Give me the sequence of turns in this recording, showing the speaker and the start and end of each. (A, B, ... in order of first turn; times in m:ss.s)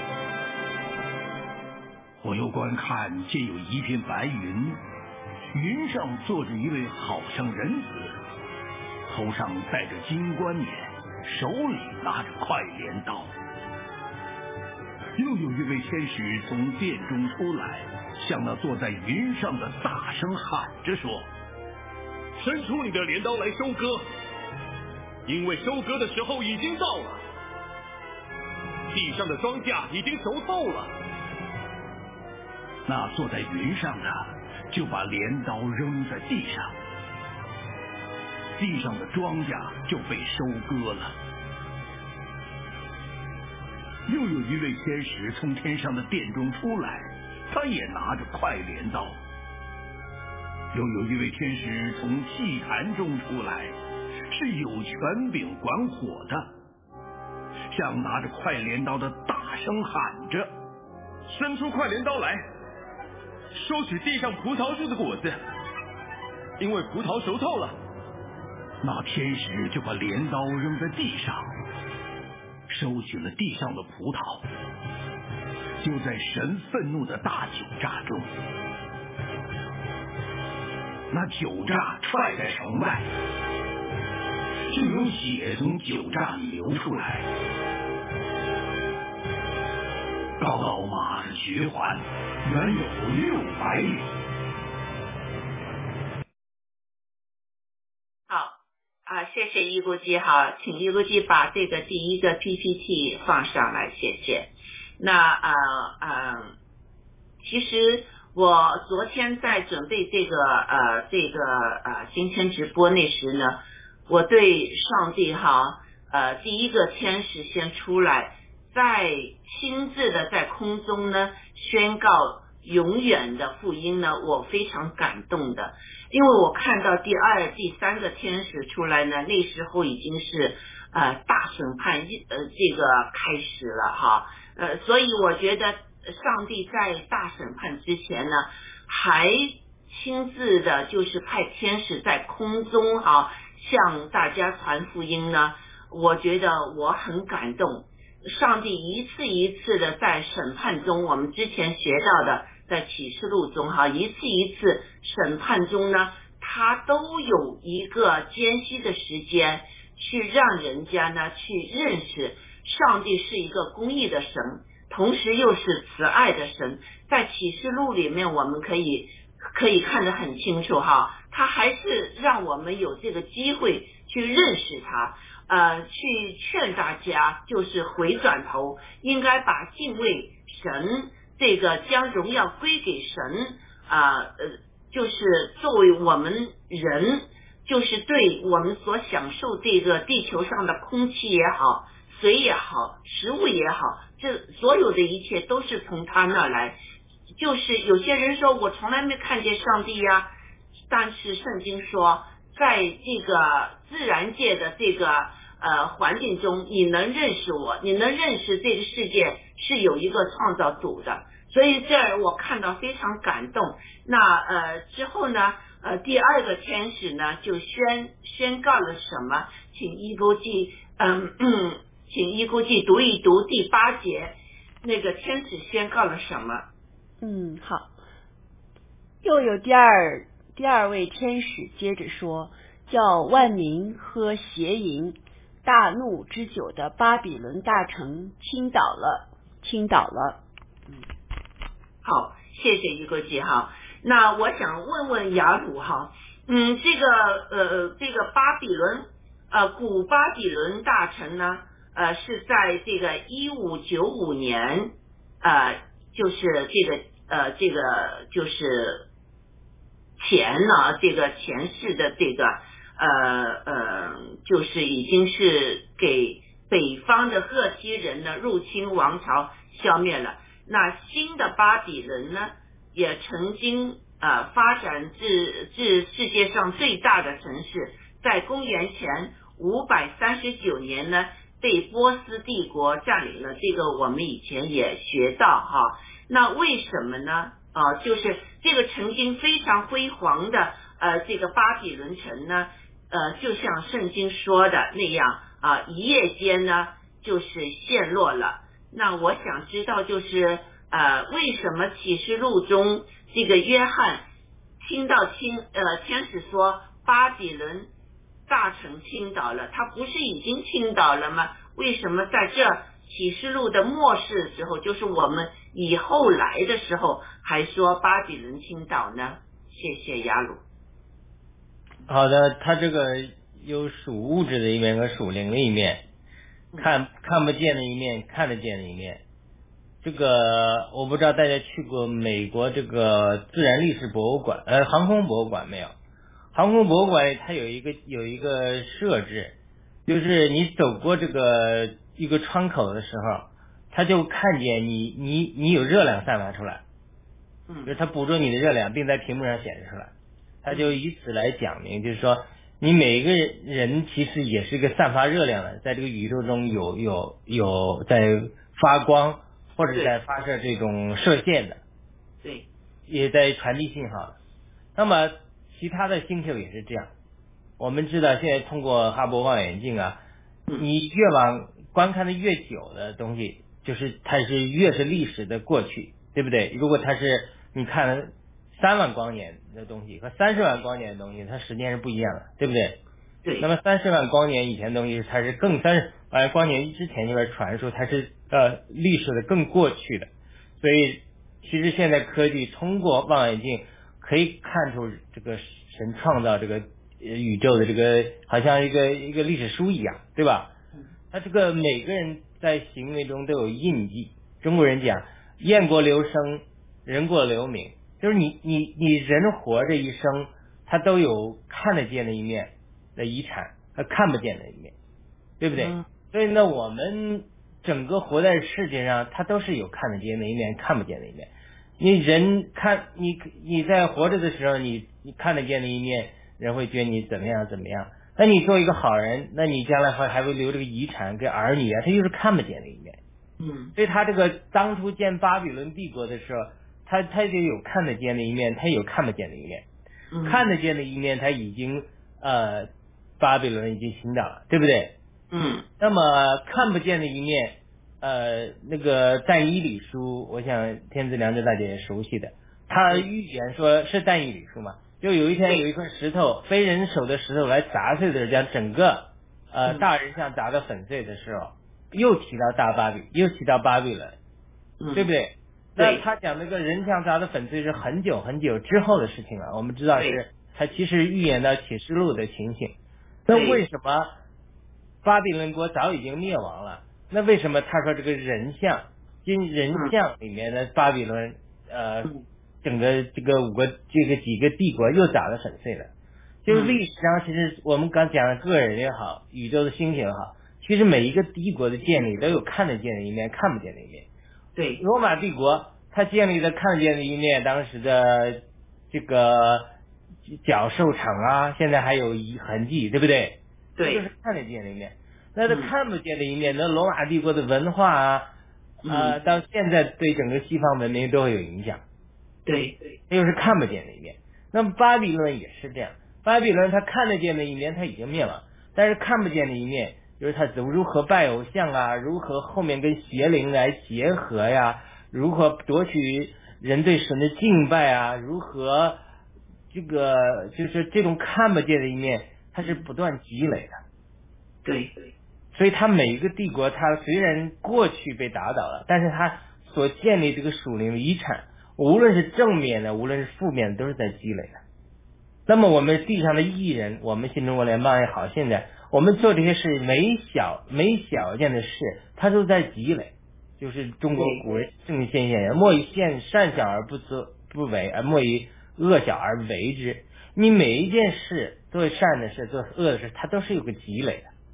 0:02.2-0:04.8 A
0:05.5-0:08.2 A
0:09.1-0:13.3 A
0:15.2-0:21.3 A
0:22.4-0:24.0 B
0:25.2-0:27.2 B
0:28.9-0:30.9 B
0:32.8-0:36.7 A
0:38.6-0:41.2 A
0:44.0-0:49.2 A
0:50.7-0:53.8 A
0:54.3-0:56.5 A
0:57.7-1:00.5 A
1:01.3-1:02.4 B
1:03.6-1:05.3 B
1:06.6-1:07.8 B
1:08.8-1:11.5 A
1:12.7-1:14.4 A
1:15.8-1:18.3 A
1:21.1-1:23.1 A
1:24.7-1:27.3 A
1:30.4-1:34.1 A
1:38.3-1:46.5 C
1:47.4-3:16.8 C
3:17.3-3:20.3 C
3:20.9-3:46.7 C
3:47.2-3:47.9 D
3:49.2-4:01.0 D
4:02.0-4:19.1 C
4:20.2-5:04.2 C
5:04.8-5:07.9 C
5:08.5-5:20.6 C
5:22.1-5:26.0 E
5:26.8-5:29.2 E
5:30.0-5:35.9 E
5:36.5-5:39.6 E
5:40.1-5:46.8 E
5:47.8-5:50.1 E
5:50.6-6:01.8 E
5:50.7-5:51.0 C
6:03.1-6:04.4 E
6:04.9-6:07.1 E
6:07.8-6:10.2 E
6:10.8-6:23.0 E
6:23.6-6:30.3 E
6:30.8-6:40.7 E
6:41.3-6:54.9 E
6:55.6-7:13.2 E
6:55.7-6:56.0 C
7:13.6-7:13.9 C
7:14.0-7:19.8 E
7:20.3-7:20.7 C
7:20.4-7:25.2 E
7:25.5-7:25.9 C
7:26.0-7:44.4 E
7:45.0-7:45.3 C
7:45.1-7:52.9 E
7:46.0-7:46.2 C
7:50.1-7:50.4 C
7:53.5-7:54.3 E
7:53.5-7:53.8 C
7:55.2-8:02.3 E
8:02.8-8:06.1 E
8:06.6-8:14.3 E
8:06.7-8:07.0 C
8:14.8-8:15.0 C
8:15.0-8:19.9 E
8:20.5-8:28.5 E
8:24.0-8:24.2 C
8:25.6-8:25.9 C
8:29.0-8:29.4 C
8:29.1-8:32.0 E
8:32.6-8:33.1 C
8:33.3-8:49.2 E
8:49.9-8:54.0 E
8:54.8-8:55.2 C
8:55.7-9:04.8 E
9:05.7-9:24.5 E
9:14.3-9:14.6 C